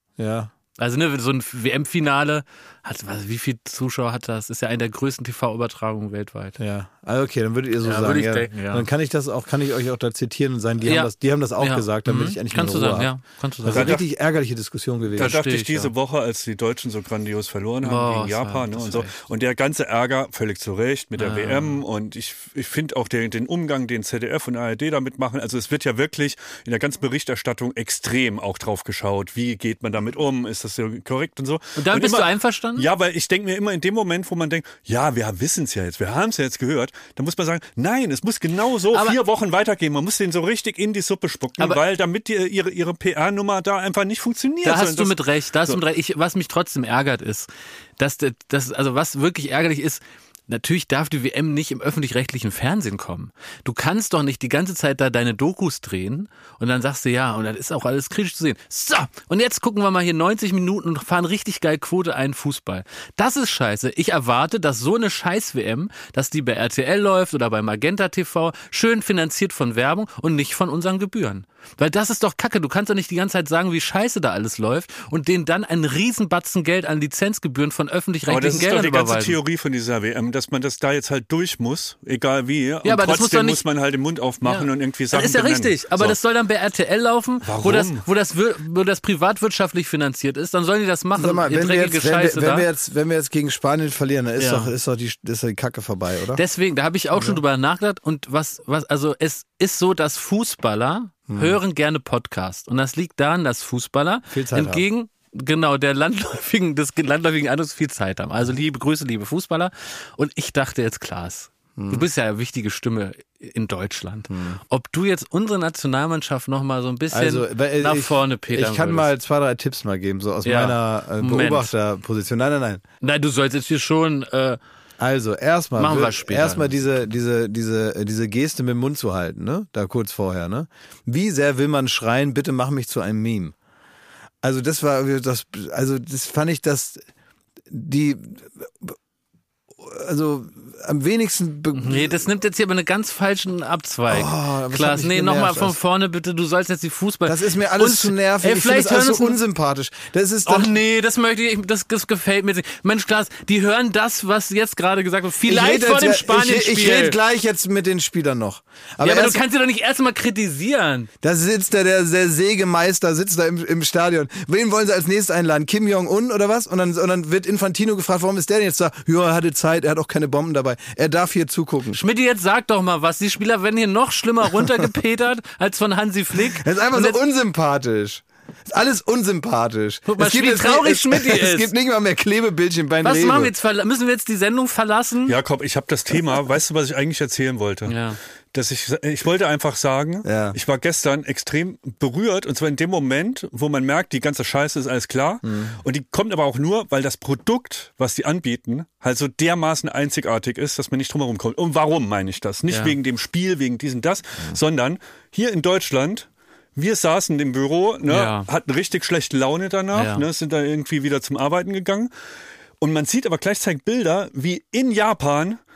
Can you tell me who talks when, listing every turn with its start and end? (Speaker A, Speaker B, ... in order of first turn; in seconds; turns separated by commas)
Speaker A: 0.2-0.5, Speaker B: 0.8-6.6, Speaker A: 6.6-13.1, Speaker B: 7.8-8.8, Speaker B: 10.8-14.0, Speaker A: 13.6-15.3, Speaker C: 13.7-14.1, Speaker B: 15.2-15.9, Speaker C: 15.2-45.8, Speaker B: 17.8-19.1, Speaker B: 21.2-21.8, Speaker B: 31.8-32.9, Speaker B: 38.9-39.2, Speaker B: 44.6-79.4, Speaker C: 78.3-86.2, Speaker B: 82.8-83.6, Speaker B: 84.4-92.7, Speaker C: 87.4-88.0, Speaker A: 91.2-96.4, Speaker B: 94.4-94.7, Speaker B: 96.3-119.1, Speaker A: 97.2-97.4, Speaker A: 101.3-101.6, Speaker A: 104.3-104.8, Speaker A: 111.8-112.0, Speaker A: 114.3-114.6, Speaker A: 117.1-122.8, Speaker B: 120.4-121.7, Speaker B: 123.0-124.6, Speaker A: 125.0-133.5, Speaker B: 125.8-127.1, Speaker A: 134.4-137.0, Speaker A: 137.7-139.0, Speaker A: 139.8-142.3, Speaker B: 141.7-149.4, Speaker A: 144.1-145.8, Speaker A: 147.3-150.7, Speaker B: 150.4-157.2, Speaker A: 155.4-159.4, Speaker B: 159.0-161.1, Speaker A: 161.2-172.0, Speaker B: 171.9-177.2, Speaker A: 176.3-183.5, Speaker B: 180.1-181.7, Speaker B: 183.0-185.4, Speaker C: 185.3-188.0, Speaker B: 187.8-188.2, Speaker C: 188.5-212.1, Speaker A: 190.2-190.6, Speaker A: 195.4-195.8, Speaker B: 202.7-202.9, Speaker B: 208.1-208.5, Speaker B: 209.9-210.2, Speaker C: 212.8-215.6